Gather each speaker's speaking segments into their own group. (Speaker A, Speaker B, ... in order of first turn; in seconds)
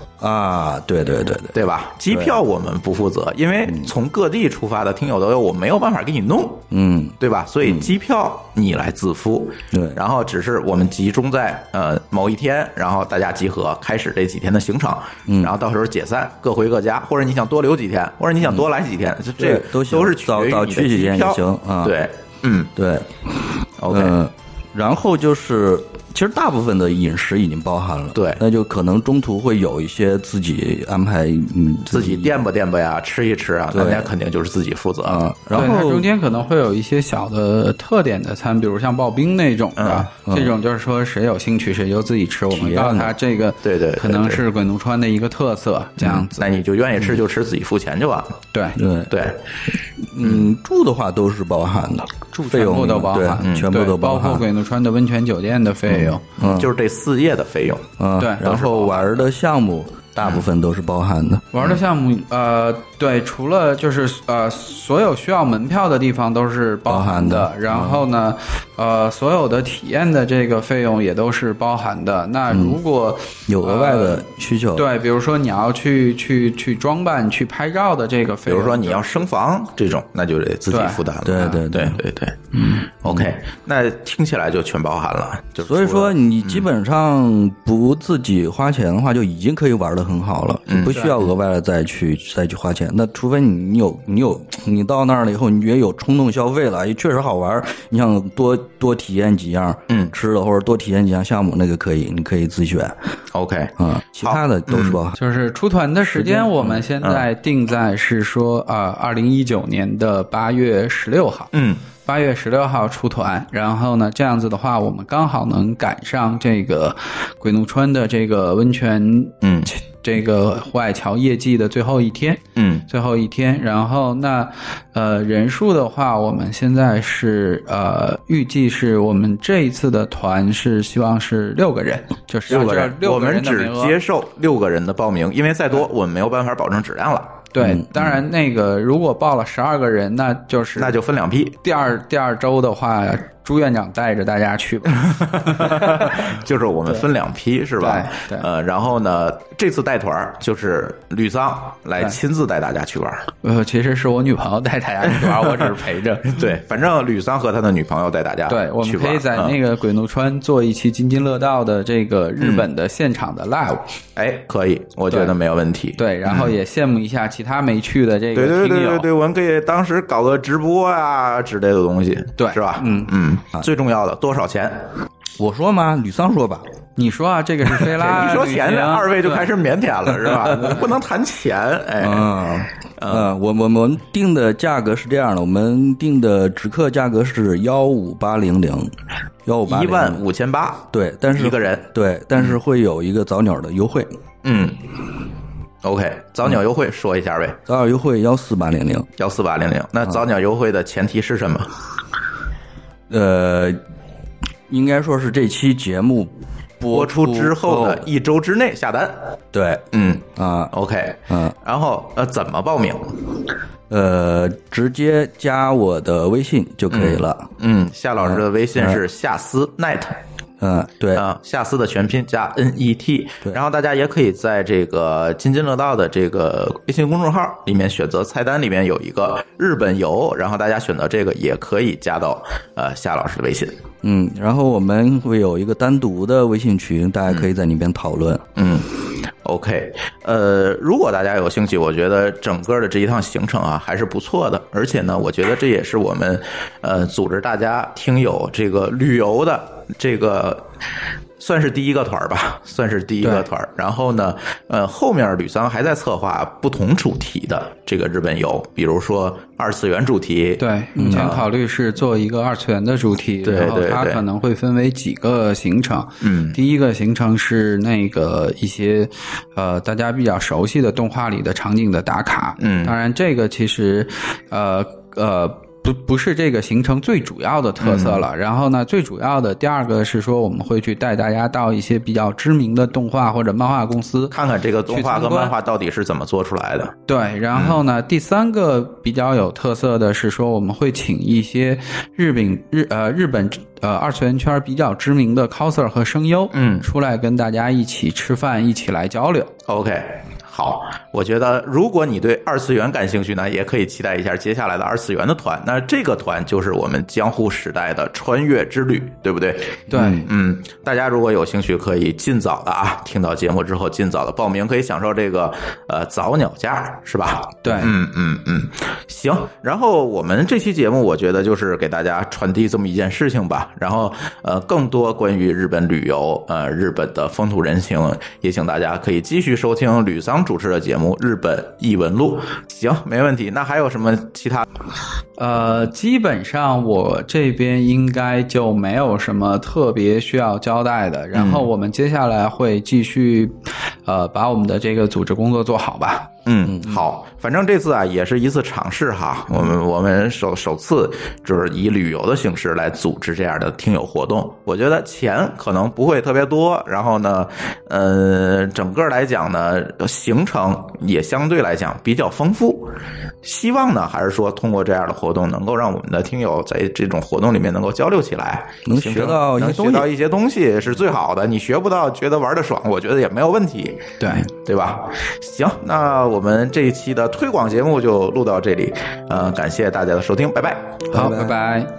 Speaker A: 0.2-2.4, 6.7-7.9, 9.7-10.0, 15.3-15.5, 19.4-21.9, 22.8-23.1, 23.9-32.4, 33.7-34.1, 35.0-36.1, 40.2-40.5, 42.5-43.1, 48.8-49.1, 50.1-54.5, 55.9-56.7, 58.0-61.5, 66.9-68.1, 72.5-72.8, 73.5-74.8, 81.2-82.0, 85.6-102.9, 103.8-105.2, 106.1-106.7, 175.4-176.6, 180.3-180.7, 182.0-188.9, 189.4-190.2, 190.9-194.1, 197.7-199.1, 203.1-203.8, 204.7-208.1, 209.5-209.8, 210.4-210.7, 211.3-211.5, 213.9-217.5, 218.2-219.0, 220.6-221.2, 234.0-238.4, 261.0-261.4, 309.9-310.3, 368.9-370.1, 381.1-381.5
Speaker B: 1.5-6.6, 7.2-22.7, 23.8-24.2, 28.1-28.4, 31.9-35.6, 39.8-40.1, 43.6-44.4, 46.0-48.4, 49.1-49.4, 50.2-50.5, 53.4-53.7, 56.4-57.9, 60.2-60.5, 78.5-86.7, 90.7-91.3, 103.3-105.0, 111.5-111.8, 119.4-119.7, 122.6-122.8, 132.5-137.4, 140.8-141.6, 145.0-153.2, 155.1-159.6, 162.4-162.7, 164.2-166.5, 168.3-174.9, 177.8-182.4, 183.0-183.3, 189.7-192.6, 194.4-194.8, 195.8-197.6, 199.2-201.7, 206.9-209.3, 209.9-213.2, 216.9-220.2, 221.1-233.7, 238.6-250.7, 251.4-261.4, 263.4-264.2, 266.2-266.6, 272.6-272.9, 277.8-278.2, 284.3-286.9, 296.5-296.9, 299.7-334.6, 341.3-341.7, 346.4-381.0
Speaker C: 35.5-46.5, 48.5-48.8, 52.3-56.2, 58.2-59.2, 61.5-79.2, 80.7-81.6, 105.2-111.5, 112.0-134.0, 137.5-140.9, 141.6-146.3, 147.8-148.5, 153.4-156.4, 158.5-163.9, 166.0-169.1, 172.4-173.1, 177.0-179.5, 260.6-284.4, 284.9-285.5, 287.1-299.5, 309.9-310.2, 317.6-317.9, 335.4-346.3, 374.2-374.5, 381.1-381.9